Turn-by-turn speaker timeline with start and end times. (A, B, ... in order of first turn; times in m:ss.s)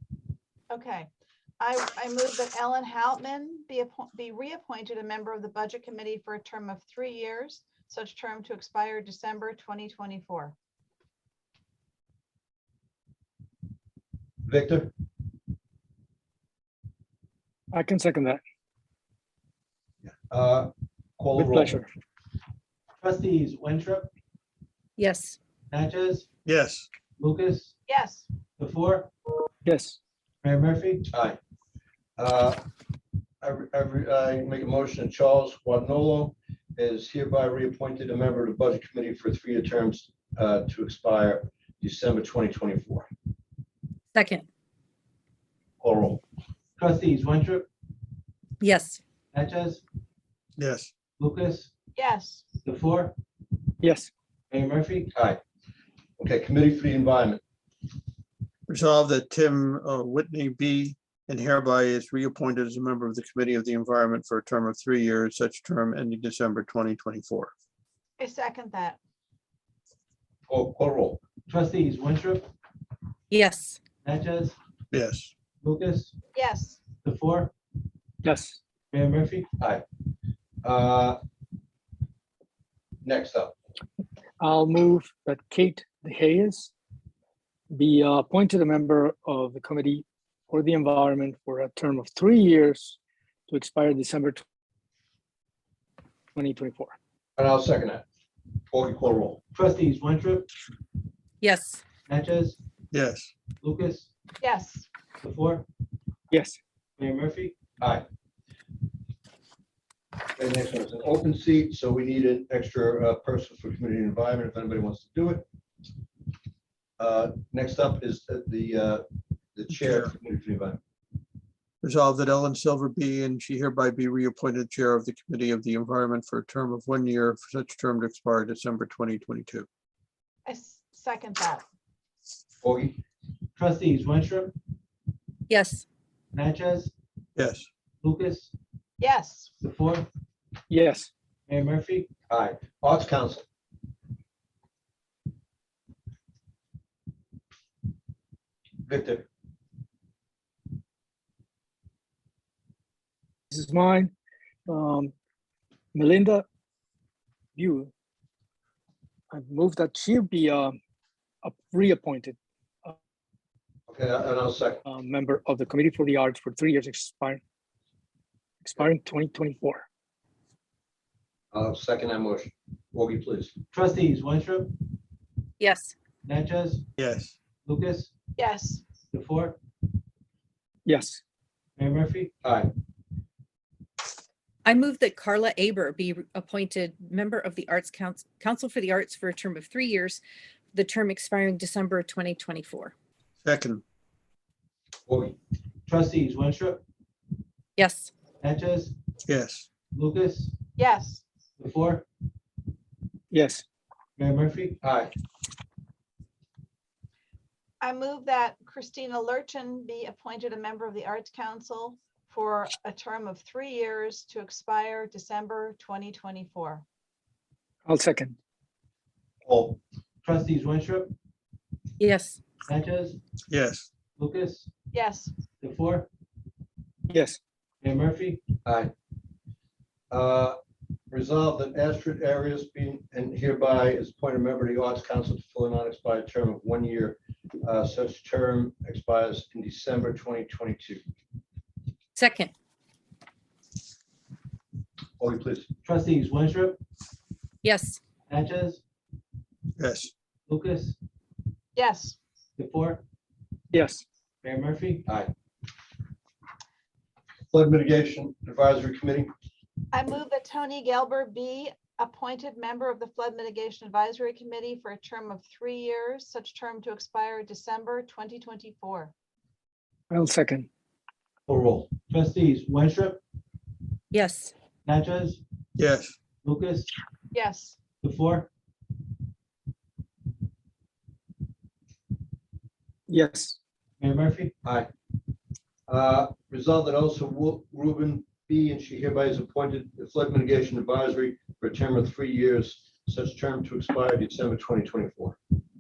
0:00.7-0:01.1 A
0:01.6-0:10.6 A
0:14.4-0:14.9 B
0:17.7-0:18.4 C
0:20.1-0:21.7 B
0:21.4-0:21.9 C
0:23.0-0:24.1 D
0:25.0-0:25.4 E
0:25.7-0:26.3 D
0:26.4-0:26.9 F
0:27.2-0:27.8 D
0:27.9-0:28.3 A
0:28.6-0:29.1 D
0:29.6-0:30.0 C
0:30.4-0:31.1 D
0:31.1-0:31.4 B
0:32.2-0:32.6 B
0:33.4-0:43.1 B
0:44.2-0:44.4 E
0:45.8-0:46.2 B
0:46.8-0:47.7 D
0:48.6-0:49.0 E
0:49.3-0:49.8 D
0:50.6-0:50.9 F
0:51.2-0:51.7 D
0:52.0-0:52.4 A
0:52.6-0:53.2 D
0:53.8-0:54.1 C
0:54.5-0:55.1 D
0:55.1-0:55.4 B
0:56.2-0:57.4 B
0:58.7-1:07.5 F
1:08.2-1:09.0 A
1:10.5-1:11.2 B
1:11.5-1:12.5 D
1:13.3-1:13.8 E
1:14.0-1:14.6 D
1:14.9-1:15.3 F
1:15.6-1:16.2 D
1:16.4-1:16.8 A
1:17.0-1:17.5 D
1:18.2-1:18.6 C
1:18.9-1:19.5 D
1:19.6-1:19.8 B
1:20.6-1:21.2 B
1:23.0-1:23.5 B
1:24.4-1:26.7 C
1:27.7-1:33.0 C
1:33.5-1:34.4 C
1:36.4-1:37.0 C
1:37.4-1:38.0 B
1:38.7-1:39.4 B
1:39.5-1:40.5 D
1:41.4-1:41.8 E
1:42.1-1:42.6 D
1:42.9-1:43.3 F
1:43.6-1:44.1 D
1:44.4-1:44.9 A
1:45.2-1:45.6 D
1:46.3-1:46.6 C
1:47.0-1:47.6 D
1:47.8-1:48.1 B
1:50.4-1:55.4 B
1:57.0-2:00.8 B
1:59.8-2:00.1 F
2:01.8-2:09.7 F
2:10.4-2:11.6 A
2:12.6-2:13.0 B
2:13.6-2:14.6 D
2:15.5-2:15.8 E
2:16.3-2:16.9 D
2:17.4-2:17.7 F
2:18.0-2:18.5 D
2:19.0-2:19.5 A
2:19.6-2:20.1 D
2:20.7-2:21.1 C
2:21.5-2:22.1 D
2:22.3-2:23.4 B
2:28.8-2:29.2 B
2:33.5-2:34.1 C
2:34.7-2:35.1 C
2:35.9-2:36.4 C
2:37.6-2:37.9 C
2:39.3-2:40.8 C
2:41.4-2:43.0 C
2:43.9-2:44.8 B
2:44.9-2:47.4 C
2:48.6-2:49.9 C
2:51.5-2:53.5 B
2:53.7-2:54.7 D
2:55.6-2:55.9 E
2:56.2-2:56.8 D
2:57.0-2:57.4 F
2:57.6-2:58.1 D
2:58.4-2:58.8 A
2:59.1-2:59.6 D
3:00.9-3:01.2 C
3:01.8-3:02.3 D
3:02.4-3:02.7 B
3:04.6-3:10.2 E
3:10.7-3:12.9 E
3:13.4-3:13.8 F
3:15.1-3:15.4 B
3:15.9-3:16.8 D
3:17.8-3:18.1 E
3:18.4-3:19.0 D
3:19.3-3:19.7 F
3:19.9-3:20.6 D
3:20.8-3:21.2 A
3:21.6-3:22.0 D
3:23.3-3:23.6 C
3:24.2-3:24.8 D
3:24.8-3:25.1 B
3:27.8-3:36.8 A
3:37.9-3:38.4 C
3:39.4-3:39.8 B
3:40.2-3:41.1 D
3:42.0-3:42.4 E
3:42.6-3:43.2 D
3:43.5-3:43.9 F
3:44.2-3:44.7 D
3:44.9-3:45.3 A
3:45.6-3:46.1 D
3:47.1-3:47.4 C
3:47.8-3:48.4 D
3:48.6-3:48.9 B
3:50.1-3:50.6 B
3:51.1-4:01.0 B
4:02.2-4:02.5 E
4:05.2-4:05.7 B
4:05.8-4:06.8 D
4:07.6-4:08.0 E
4:08.3-4:08.8 D
4:09.8-4:10.1 F
4:10.5-4:11.0 D
4:11.8-4:12.2 A
4:12.6-4:13.0 D
4:13.7-4:14.0 C
4:14.4-4:15.1 D
4:17.5-4:19.3 B
4:19.9-4:29.1 A
4:30.1-4:30.7 C
4:31.5-4:31.9 B
4:32.1-4:33.2 D
4:34.1-4:34.5 E
4:34.8-4:35.4 D
4:35.8-4:36.2 F
4:36.4-4:36.9 D
4:37.3-4:37.8 A
4:38.0-4:38.5 D
4:43.1-4:43.6 C
4:44.0-4:44.5 D
4:44.6-4:44.9 B
4:45.9-4:55.4 B